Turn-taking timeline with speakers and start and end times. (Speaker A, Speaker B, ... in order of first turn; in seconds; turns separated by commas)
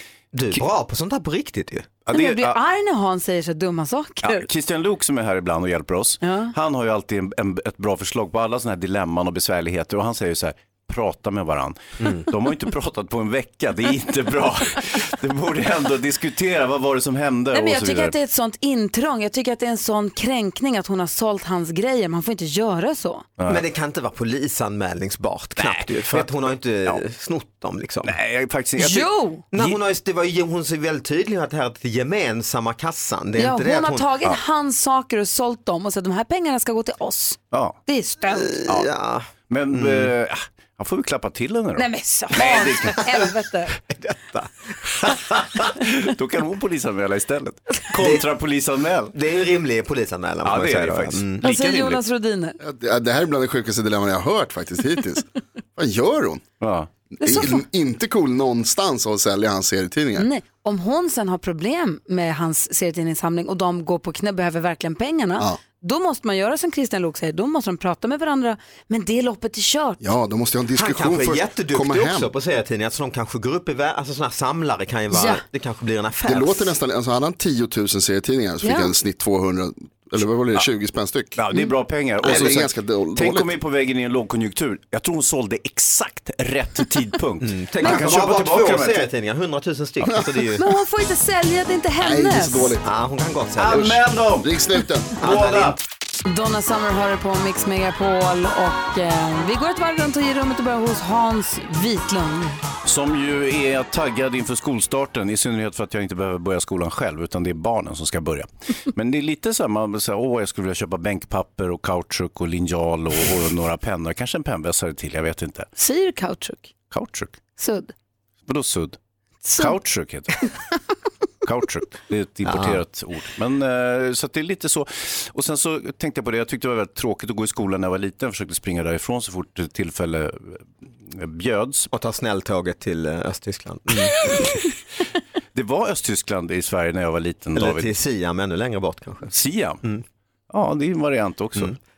Speaker A: 0.3-2.0, Speaker B: 2.0-2.5, Speaker C: 2.1-4.5, Speaker B: 4.2-18.1, Speaker C: 6.2-6.5, Speaker C: 17.5-23.3, Speaker B: 23.4-23.6, Speaker A: 23.4-28.1, Speaker B: 25.6-27.0, Speaker B: 28.0-29.8, Speaker C: 28.8-29.4, Speaker A: 29.5-34.1, Speaker C: 33.4-38.6, Speaker B: 37.5-37.8, Speaker A: 38.3-40.1, Speaker B: 39.5-43.1, Speaker C: 41.8-43.8, Speaker A: 43.9-44.9, Speaker B: 44.9-49.2, Speaker A: 47.9-48.3, Speaker A: 49.1-51.4, Speaker B: 50.4-52.0, Speaker C: 51.4-52.6, Speaker D: 52.6-56.4, Speaker B: 56.6-56.9, Speaker D: 57.2-60.3, Speaker C: 57.2-57.6, Speaker C: 60.2-70.0, Speaker D: 70.0-72.3, Speaker A: 70.7-76.7, Speaker C: 75.1-75.4, Speaker D: 76.2-81.4, Speaker C: 78.6-78.9, Speaker B: 81.3-89.1, Speaker D: 82.2-83.5, Speaker A: 87.4-90.6, Speaker C: 87.8-88.1, Speaker D: 90.0-90.3, Speaker C: 90.6-92.7, Speaker D: 92.0-92.8, Speaker A: 92.8-93.8, Speaker B: 93.6-94.6, Speaker D: 93.7-95.2, Speaker B: 95.2-95.8, Speaker A: 95.2-95.8, Speaker C: 96.2-102.6, Speaker B: 102.8-115.7, Speaker C: 115.8-116.7, Speaker B: 116.9-117.4, Speaker C: 117.6-117.9, Speaker B: 118.5-119.0, Speaker C: 119.4-119.8, Speaker B: 119.6-120.3, Speaker B: 121.4-131.9, Speaker A: 122.4-122.8, Speaker A: 131.9-134.3, Speaker B: 135.5-138.0, Speaker A: 137.5-140.0, Speaker B: 139.3-139.8, Speaker B: 140.5-141.7